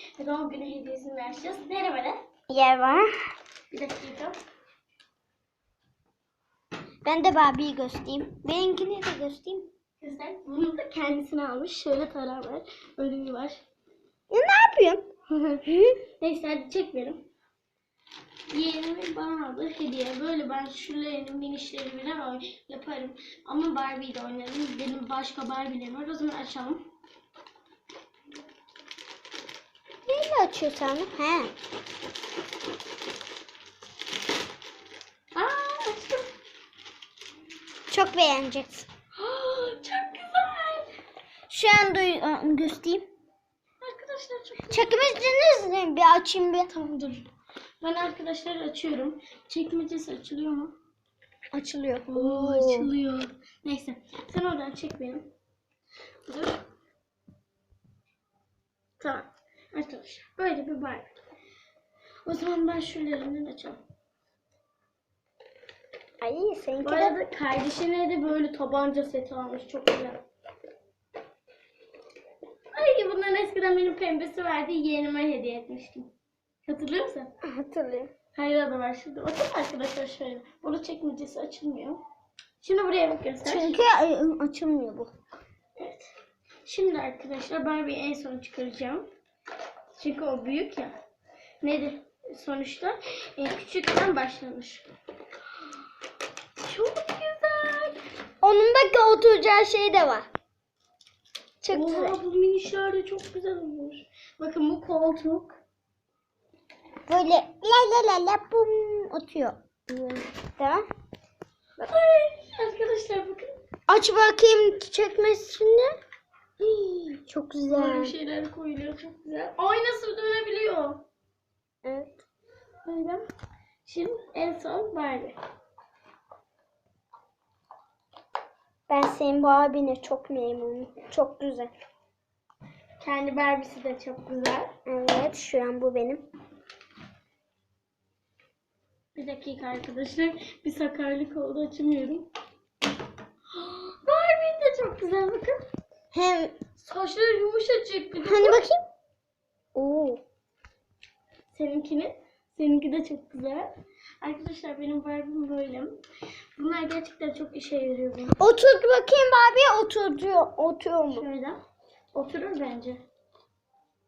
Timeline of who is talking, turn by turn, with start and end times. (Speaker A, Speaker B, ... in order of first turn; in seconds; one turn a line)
Speaker A: 0.2-2.2
Speaker B: 2.5-3.1
Speaker A: 3.7-4.3
Speaker B: 7.0-9.7
Speaker A: 10.0-13.6
Speaker B: 14.3-15.0
Speaker A: 15.3-15.7
Speaker B: 15.7-16.0
Speaker A: 16.2-17.2
Speaker A: 18.5-26.8
Speaker B: 30.1-31.5
Speaker A: 35.3-36.3
Speaker B: 37.9-38.9
Speaker A: 39.1-40.9
Speaker B: 41.5-43.0
Speaker A: 43.8-45.1
Speaker B: 44.7-46.7
Speaker A: 46.7-47.3
Speaker A: 47.8-50.7
Speaker B: 51.5-52.9
Speaker A: 52.1-55.3
Speaker A: 56.3-56.6
Speaker A: 59.0-61.1
Speaker A: 62.2-63.8
Speaker B: 66.2-67.2
Speaker A: 66.8-70.2
Speaker A: 72.7-76.1
Speaker A: 76.7-77.3
Speaker B: 77.4-78.1
Speaker A: 78.3-82.0
Speaker A: 82.6-83.8
Speaker B: 83.4-85.1
Speaker A: 85.8-86.1
Speaker A: 86.6-89.0
Speaker A: 89.9-90.9
Speaker A: 91.6-94.8
Speaker A: 96.6-98.0
Speaker B: 98.4-100.3
Speaker B: 101.6-102.2
Speaker A: 101.7-105.6
Speaker B: 107.1-110.8
Speaker A: 111.8-113.5
Speaker B: 113.9-115.9
Speaker A: 116.6-117.1
Speaker B: 117.2-118.1
Speaker A: 117.7-121.0
Speaker B: 121.8-122.2
Speaker A: 122.8-123.2
Speaker A: 123.8-125.3
Speaker B: 128.9-131.7
Speaker A: 133.0-134.7
Speaker B: 134.8-136.2
Speaker A: 139.1-142.3
Speaker A: 143.5-145.6
Speaker B: 146.1-146.6
Speaker A: 146.8-148.7
Speaker B: 148.2-148.8
Speaker B: 149.7-150.2
Speaker A: 151.5-156.0
Speaker A: 156.6-158.4
Speaker B: 158.4-161.3
Speaker A: 161.1-161.6
Speaker A: 162.1-163.0